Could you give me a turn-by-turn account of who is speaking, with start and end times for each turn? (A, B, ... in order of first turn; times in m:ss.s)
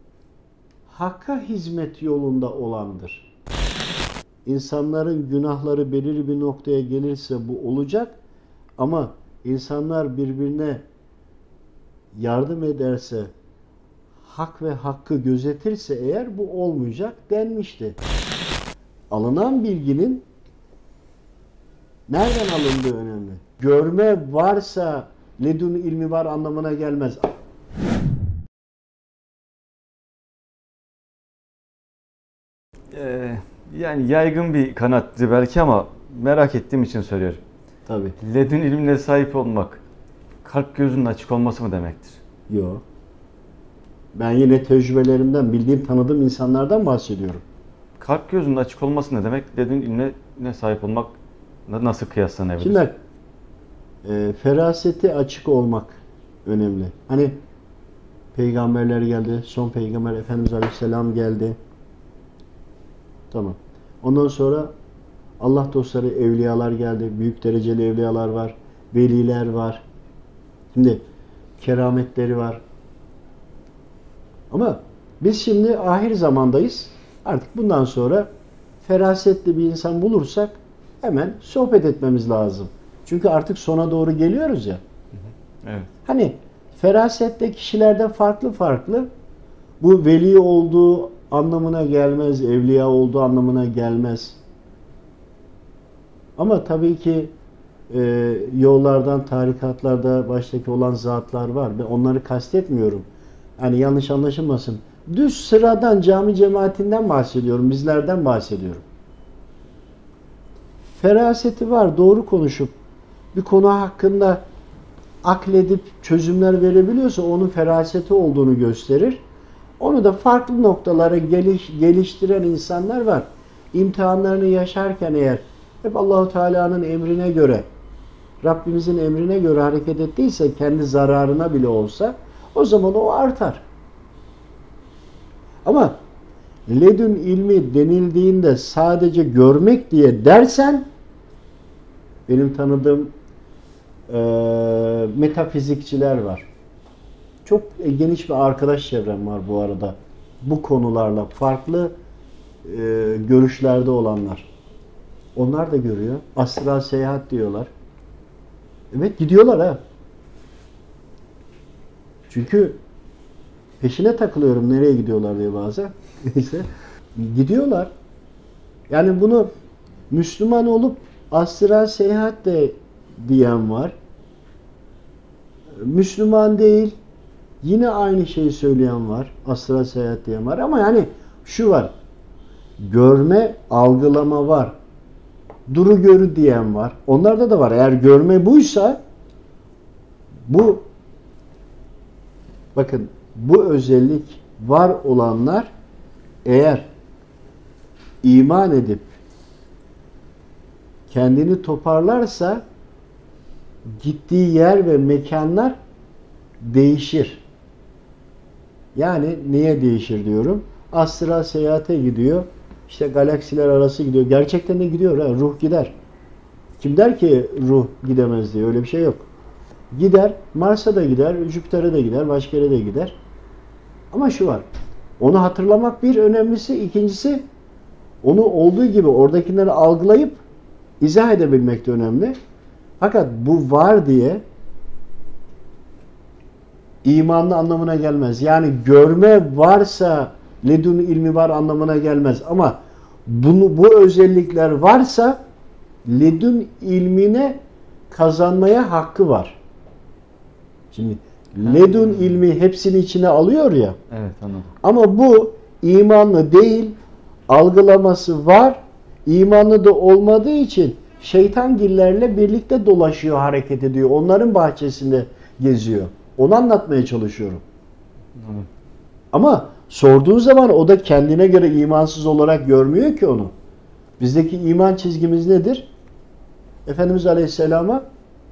0:00.9-0:03.3 A
0:04.4-0:08.2 A
0:08.8-0:10.8 A
0:12.1-0:13.3 A
0:14.2-0:18.0 A
0:19.1-0:20.2 A
0:22.1-0:27.3 A
0:32.9-0:37.4 B
0:37.9-0:38.2 A
0:38.2-0:39.8 B
0:40.4-0:42.2 B
0:42.5-0:42.8 A
0:44.2-0:47.4 A
0:48.0-0:51.2 B
0:51.7-0:52.8 B
0:52.6-0:53.0 A
0:54.0-0:57.4 A
0:58.3-1:01.6 A
1:03.3-1:04.7 A
1:05.4-1:09.8 A
1:10.7-1:11.0 A
1:11.6-1:12.6 A
1:14.5-1:18.3 A
1:18.8-1:24.8 A
1:25.6-1:25.9 B
1:26.0-1:29.1 A
1:29.8-1:34.4 A
1:36.4-1:37.3 A
1:37.9-1:43.1 A
1:43.6-1:48.8 A
1:51.0-1:52.7 A
1:53.3-1:54.4 A
1:55.2-1:59.2 A
1:59.8-2:07.7 A
2:08.4-2:13.6 A
2:15.6-2:16.0 A
2:16.7-2:20.9 A
2:22.3-2:23.1 A
2:24.1-2:26.5 A
2:27.4-2:31.9 A
2:32.6-2:34.5 A
2:35.4-2:37.7 A
2:38.9-2:39.8 A
2:42.3-2:42.8 A
2:43.8-2:47.9 A
2:48.9-2:49.5 A
2:50.1-2:54.0 A
2:55.8-2:57.0 A
2:57.6-3:01.9 A
3:02.8-3:04.7 A
3:05.7-3:09.0 A
3:10.5-3:10.9 A
3:12.8-3:15.7 A
3:16.4-3:16.9 A
3:18.2-3:19.1 A
3:21.1-3:22.6 A
3:24.0-3:25.8 A
3:26.6-3:27.4 A
3:29.0-3:35.9 A
3:36.8-3:39.2 A
3:39.9-3:43.2 A
3:44.1-3:44.7 A
3:45.2-3:47.5 A
3:48.2-3:50.4 A
3:51.0-3:52.4 A
3:53.0-3:54.4 A
3:57.0-4:05.4 A
4:06.0-4:07.6 A
4:08.1-4:09.6 A
4:10.9-4:14.0 A
4:11.6-4:12.4 B
4:14.1-4:14.7 B
4:14.8-4:17.0 A
4:17.5-4:27.6 A
4:28.4-4:28.7 B
4:29.3-4:33.5 A
4:34.2-4:35.9 A
4:36.9-4:38.0 A